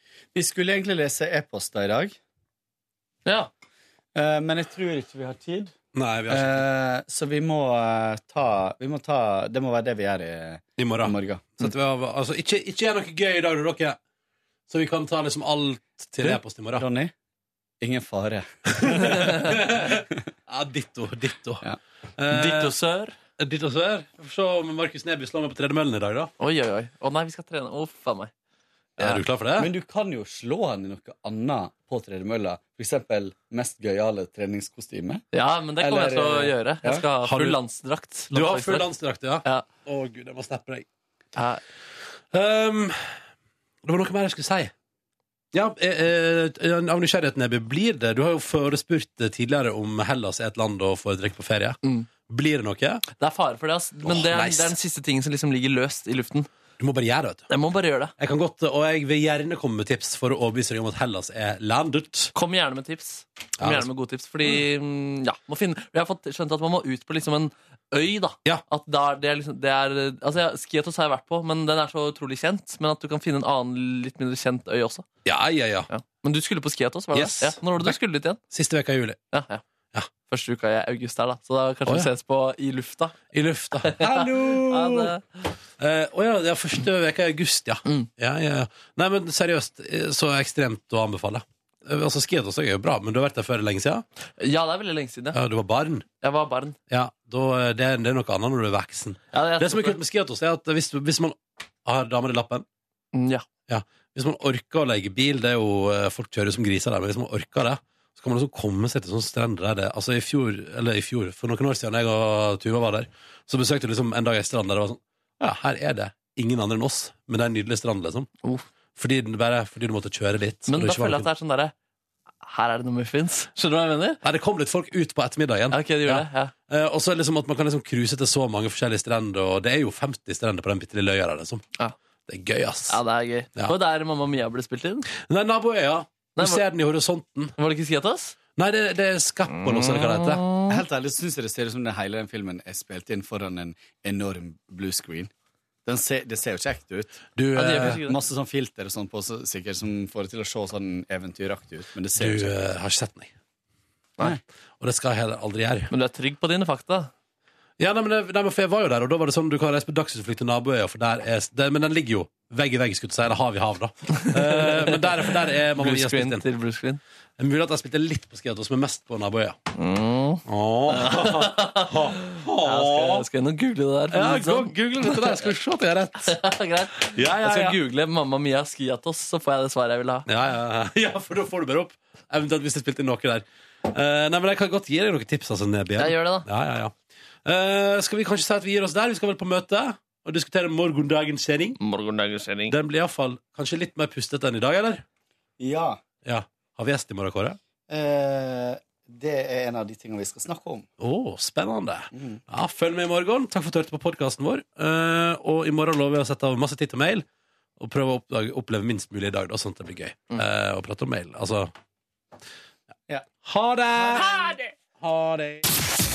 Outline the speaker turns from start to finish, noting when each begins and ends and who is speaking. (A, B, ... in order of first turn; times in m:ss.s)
0:00.4-0:02.2 A
0:04.2-0:05.7 A
0:06.0-0:06.7 B
0:06.3-0:11.7 A
0:10.8-0:14.0 B
0:14.7-0:16.9 B
0:16.2-0:17.1 A
0:17.8-0:19.3 A
0:19.0-0:21.7 B
0:22.2-0:22.8 B
0:22.3-0:23.2 C
0:23.4-0:26.3 B
0:26.4-0:28.3 C
0:29.0-0:29.7 B
0:29.6-0:35.2 A
0:35.3-0:38.9 C
0:35.8-0:37.1 A
0:37.2-0:37.6 B
0:38.3-0:40.9 B
0:41.4-0:41.6 C
0:42.3-0:43.2 B
0:43.8-0:44.7 B
0:45.5-0:53.0 B
0:53.2-0:56.5 C
0:54.0-0:54.8 B
0:56.8-0:57.5 B
0:57.5-0:58.1 C
0:58.2-1:02.3 B
1:02.4-1:15.1 C
1:03.6-1:03.9 B
1:15.2-1:15.9 B
1:15.9-1:18.4 C
1:17.1-1:18.0 B
1:18.5-1:19.2 B
1:19.3-1:19.6 C
1:20.3-1:23.2 C
1:23.3-1:25.1 B
1:23.8-1:25.5 C
1:25.8-1:34.0 B
1:34.4-1:35.4 C
1:35.3-1:36.1 B
1:36.2-1:36.8 C
1:36.9-1:42.7 B
1:39.3-1:40.0 C
1:43.1-1:43.5 C
1:43.7-1:58.3 B
1:59.0-2:01.3 B
2:00.7-2:01.7 C
2:02.4-2:04.2 C
2:04.2-2:11.6 B
2:05.7-2:06.5 C
2:12.3-2:13.0 B
2:12.9-2:15.1 C
2:15.1-2:17.5 B
2:16.4-2:16.6 C
2:17.6-2:18.4 C
2:18.6-2:20.4 B
2:19.5-2:20.8 C
2:20.7-2:25.3 A
2:25.8-2:27.2 A
2:27.4-2:28.0 B
2:27.6-2:28.2 C
2:27.8-2:32.5 A
2:32.2-2:33.3 B
2:34.8-2:35.9 B
2:35.9-2:37.1 C
2:37.8-2:46.4 B
2:44.2-2:47.0 C
2:47.4-2:49.6 B
2:49.8-2:55.5 C
2:50.5-2:53.3 B
2:54.1-2:56.4 B
2:56.2-3:00.3 C
2:57.0-2:57.8 B
3:00.3-3:11.8 B
3:06.0-3:06.5 C
3:11.8-3:12.8 C
3:12.7-3:15.0 B
3:15.6-3:16.0 A
3:16.2-3:17.6 B
3:17.9-3:20.9 A
3:21.0-3:27.3 B
3:22.1-3:22.4 A
3:27.8-3:31.7 B
3:33.4-3:34.3 B
3:34.0-3:34.3 A
3:35.0-3:35.6 B